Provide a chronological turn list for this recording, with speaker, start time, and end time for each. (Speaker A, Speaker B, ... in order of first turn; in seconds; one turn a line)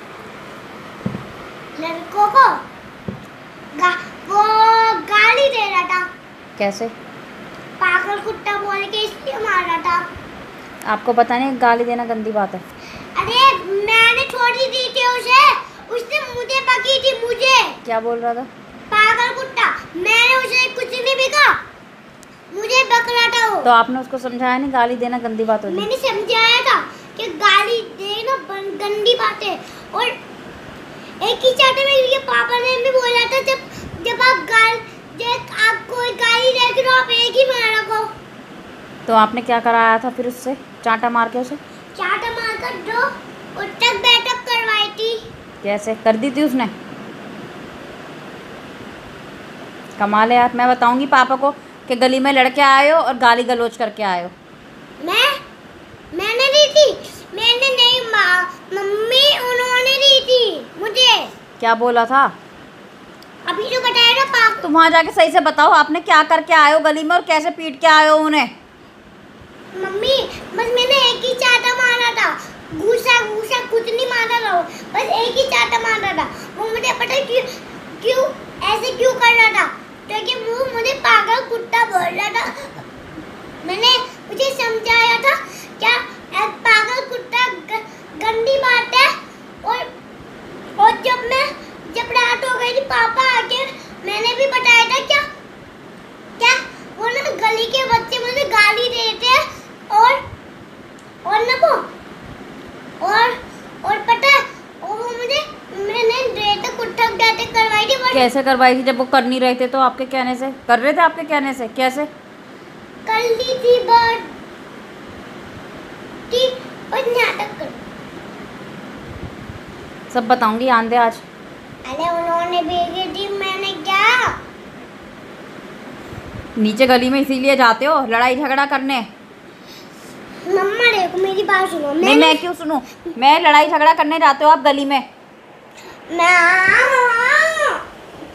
Speaker A: 1.8-2.6
Speaker A: 3.8-6.1
Speaker B: 6.6-6.9
Speaker A: 7.8-10.1
Speaker B: 10.9-12.6
Speaker A: 13.2-17.8
Speaker B: 17.9-18.5
Speaker A: 18.9-21.6
Speaker A: 22.5-23.7
Speaker B: 23.6-25.9
Speaker A: 25.7-30.2
Speaker A: 31.2-38.1
Speaker B: 39.1-41.6
Speaker A: 42.0-45.3
Speaker B: 45.6-46.7
Speaker B: 50.0-54.3
Speaker A: 55.0-55.4
Speaker A: 56.1-61.3
Speaker B: 61.6-62.3
Speaker A: 63.5-64.7
Speaker B: 64.6-68.5
Speaker A: 69.8-82.8
Speaker A: 83.6-89.9
Speaker A: 90.8-95.3
Speaker A: 96.4-100.2
Speaker A: 101.2-101.9
Speaker A: 103.0-108.3
Speaker B: 108.1-112.1
Speaker A: 113.1-114.3
Speaker A: 116.3-117.8
Speaker B: 120.1-121.2
Speaker A: 121.8-124.4
Speaker B: 126.6-129.1
Speaker A: 130.4-132.4
Speaker B: 132.0-135.1
Speaker A: 136.1-137.8